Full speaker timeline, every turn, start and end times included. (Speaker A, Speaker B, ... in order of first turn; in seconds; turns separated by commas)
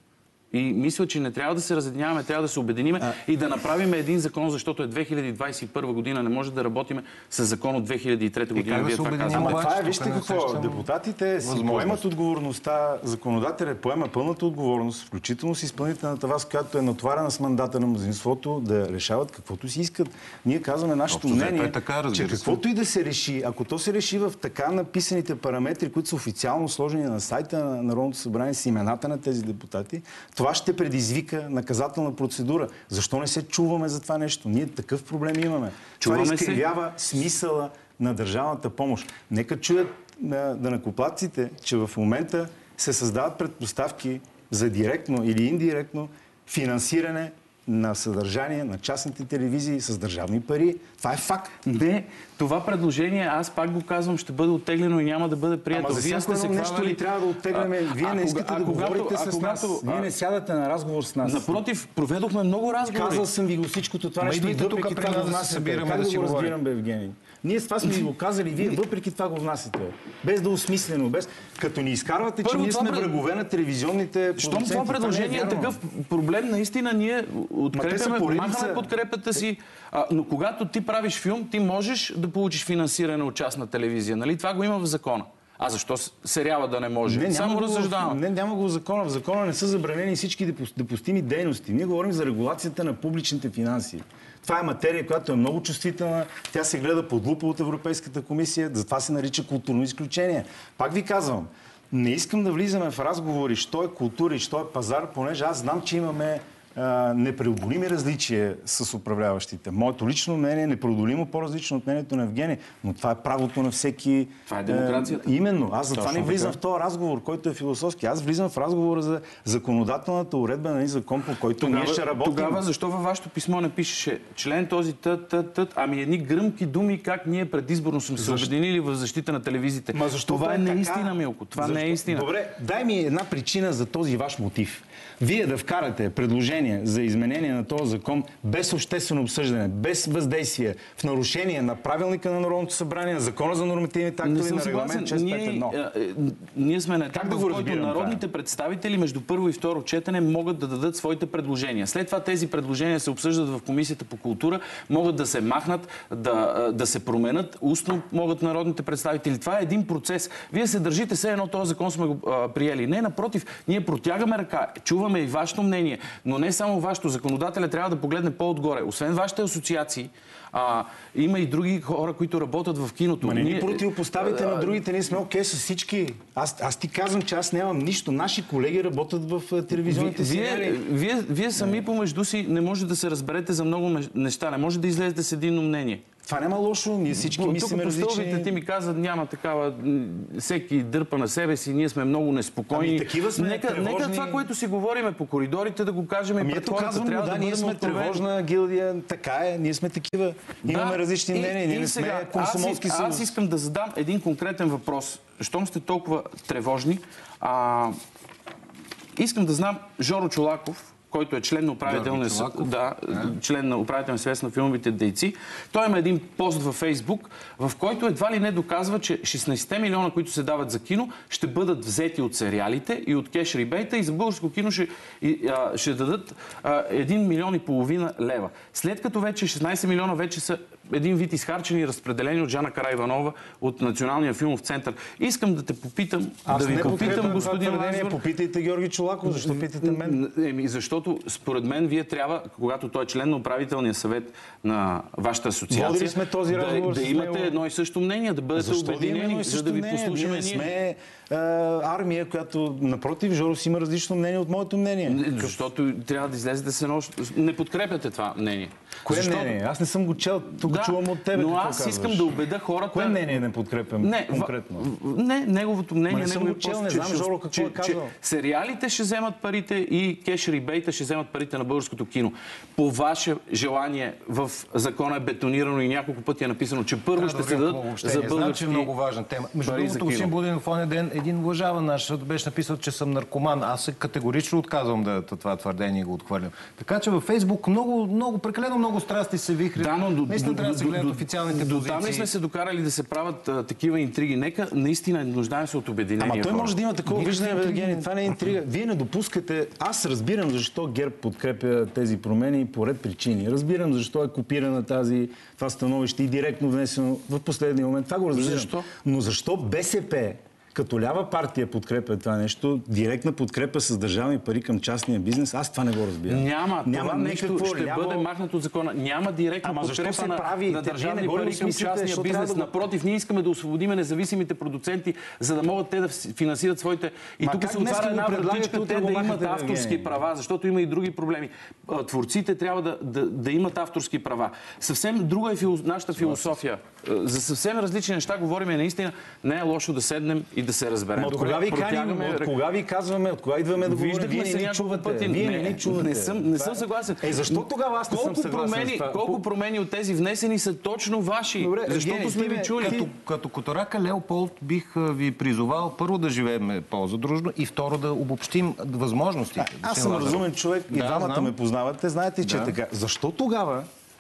Speaker A: 0.5-9.7, Speaker B: 8.5-10.9, Speaker C: 9.3-51.8, Speaker B: 11.4-12.1, Speaker B: 21.1-22.6, Speaker A: 36.0-36.6, Speaker A: 51.7-60.1, Speaker C: 55.7-61.6, Speaker A: 61.2-63.3, Speaker C: 62.8-75.8, Speaker B: 64.2-66.6, Speaker A: 72.4-73.2, Speaker A: 74.4-88.2, Speaker C: 77.7-78.9, Speaker C: 87.1-122.6, Speaker A: 114.5-115.3, Speaker A: 115.9-116.6, Speaker A: 121.6-132.3, Speaker C: 128.2-128.5, Speaker C: 129.9-145.8, Speaker A: 144.2-174.8, Speaker C: 147.1-148.2, Speaker C: 173.2-180.8, Speaker A: 179.9-186.1, Speaker C: 181.6-181.8, Speaker C: 186.2-188.6, Speaker A: 187.1-198.2, Speaker C: 192.7-194.5, Speaker C: 196.4-203.3, Speaker A: 200.6-208.0, Speaker A: 209.2-238.2, Speaker B: 211.8-213.3, Speaker C: 236.5-240.2, Speaker A: 239.3-250.7, Speaker C: 245.7-247.6, Speaker C: 248.6-255.6, Speaker A: 255.1-259.6, Speaker C: 259.1-262.4, Speaker A: 260.6-263.4, Speaker C: 262.9-264.9, Speaker A: 264.0-278.9, Speaker C: 266.1-268.1, Speaker B: 277.1-292.3, Speaker A: 279.6-280.3, Speaker A: 289.8-296.8, Speaker C: 296.2-318.3, Speaker B: 297.1-298.1, Speaker A: 308.3-308.9, Speaker A: 316.3-342.5, Speaker C: 319.6-322.7, Speaker C: 327.4-330.2, Speaker C: 336.2-336.6, Speaker C: 341.2-349.4, Speaker A: 343.8-353.0, Speaker C: 351.6-353.1, Speaker B: 352.8-361.5, Speaker C: 359.6-363.9, Speaker B: 362.4-362.8